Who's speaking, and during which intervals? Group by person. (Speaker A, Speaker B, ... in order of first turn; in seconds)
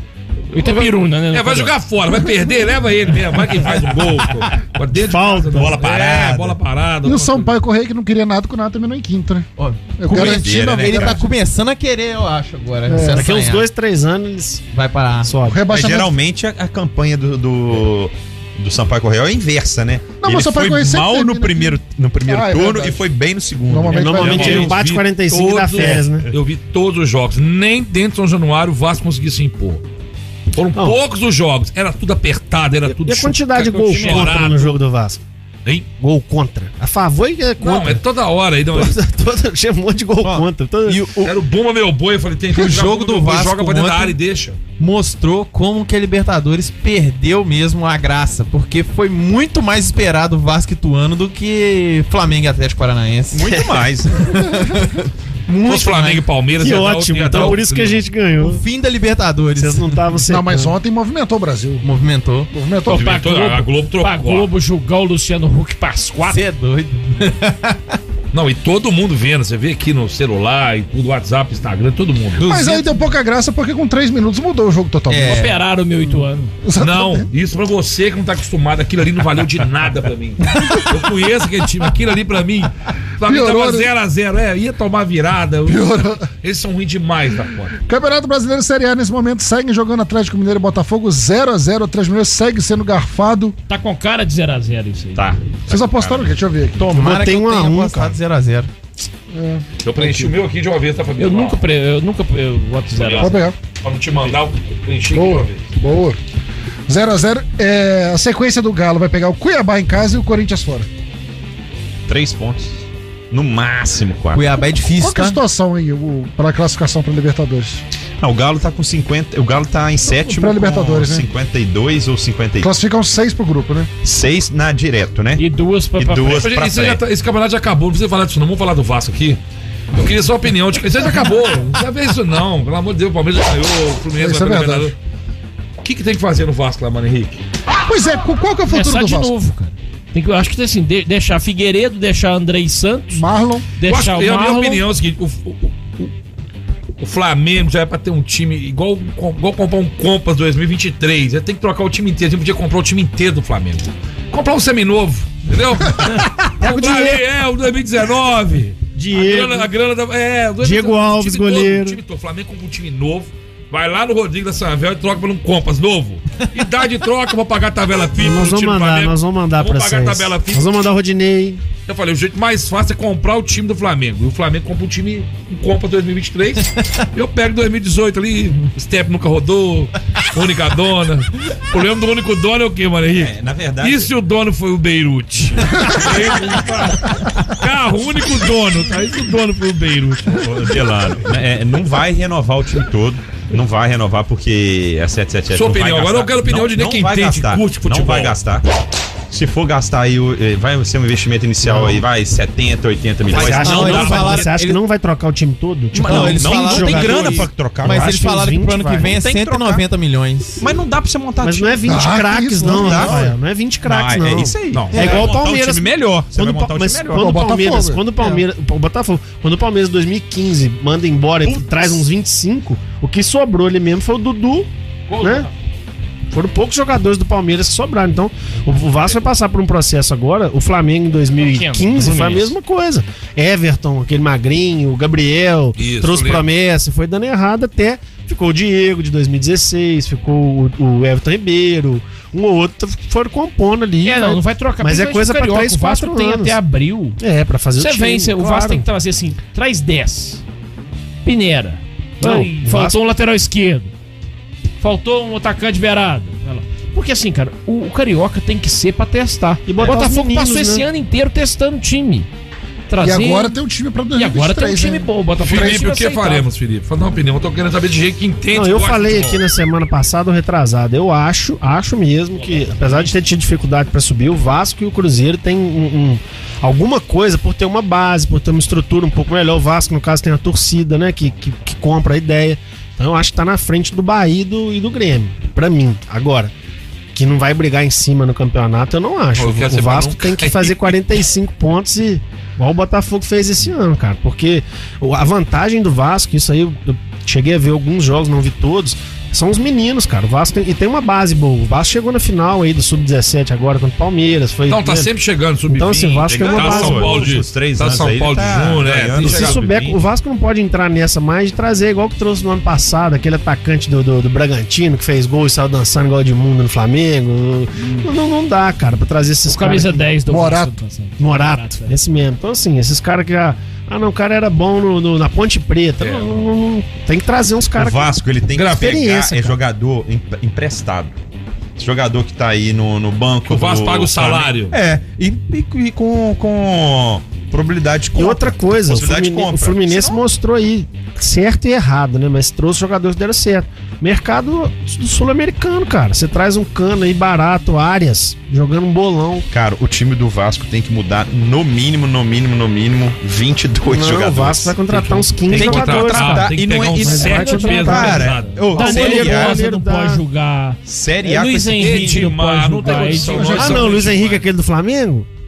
Speaker A: 0.5-7.6, 24.1-29.8, 30.5-34.8, 37.6-39.0, 41.2-44.6, 55.6-58.0, 62.9-64.5, 68.3-72.5, 76.8-87.8, 99.8-101.6, 102.9-105.7, 126.4-129.4, 129.9-134.9, 135.8-137.4, 143.8-146.1, 147.0-170.7, 171.9-190.4, 195.5-198.4, 203.4-204.5, 214.7-215.2, 235.8-236.5, 265.4-269.4, 289.3-291.0, 304.7-310.0, 326.0-326.4, 328.5-329.0, 333.4-334.8, 355.5-358.7, 361.7-364.5
Speaker B: 0.5-1.7, 33.9-34.4, 62.9-66.4, 75.3-76.5, 93.7-95.4, 101.2-103.4, 125.4-126.5, 138.7-143.2, 143.8-144.8, 225.1-225.5, 231.4-232.6, 244.0-247.2, 247.8-250.4, 251.2-253.9, 254.8-262.3, 262.9-263.6, 264.1-266.5, 272.4-273.1, 319.4-321.9, 357.0-363.6
Speaker C: 5.0-5.8, 13.1-14.7, 15.2-15.6, 23.9-26.3, 32.9-35.2, 36.0-38.0, 38.7-41.0, 56.6-58.6, 59.6-60.8, 96.9-98.2, 156.6-157.2, 158.9-159.7, 160.6-162.0, 168.2-171.6, 201.6-202.1, 203.3-209.2, 211.4-225.5, 226.3-246.6, 247.2-248.9, 252.2-253.0, 259.7-260.9, 268.5-286.5, 287.1-305.1, 305.7-307.3, 309.2-320.1, 321.2-328.1, 328.7-329.6, 338.1-349.5, 353.9-360.2, 363.5-365.3
Speaker D: 5.5-6.6, 10.1-11.2, 15.7-24.6, 25.8-26.3, 53.3-54.3, 95.2-96.3, 112.1-114.5, 118.2-122.7, 124.0-125.4, 126.0-127.0, 183.1-184.1, 190.3-198.7, 199.3-204.4, 206.1-208.2, 209.2-209.8, 210.6-212.0, 212.6-213.2, 213.9-217.4, 221.4-222.0, 305.9-309.6, 327.8-331.2, 331.8-340.2, 349.5-354.8, 355.5-359.6, 360.9-362.3
Speaker E: 7.0-9.5, 10.0-11.3, 12.9-13.3, 15.5-16.2, 20.2-23.1, 23.7-24.8, 60.3-61.9, 62.5-63.3, 72.4-75.5, 76.1-77.3, 83.2-83.9, 85.7-86.3, 87.8-93.5, 95.7-96.9, 99.3-100.3, 103.2-103.6, 105.1-106.2, 106.9-110.9, 115.0-117.8, 120.1-121.3, 122.6-123.9, 134.2-134.9, 137.9-139.3, 143.1-143.7, 211.8-213.3, 217.1-218.0, 263.0-265.1, 317.8-318.1, 320.3-320.8, 363.2-363.9
Speaker F: 9.6-13.7, 14.7-15.3, 40.2-41.4, 42.5-44.2, 44.8-56.3, 58.4-60.1, 61.8-62.5, 66.2-68.0, 72.4-73.1, 75.1-75.6, 96.8-98.7, 114.3-115.4, 203.3-204.8, 205.9-210.7, 214.9-215.3, 218.2-218.4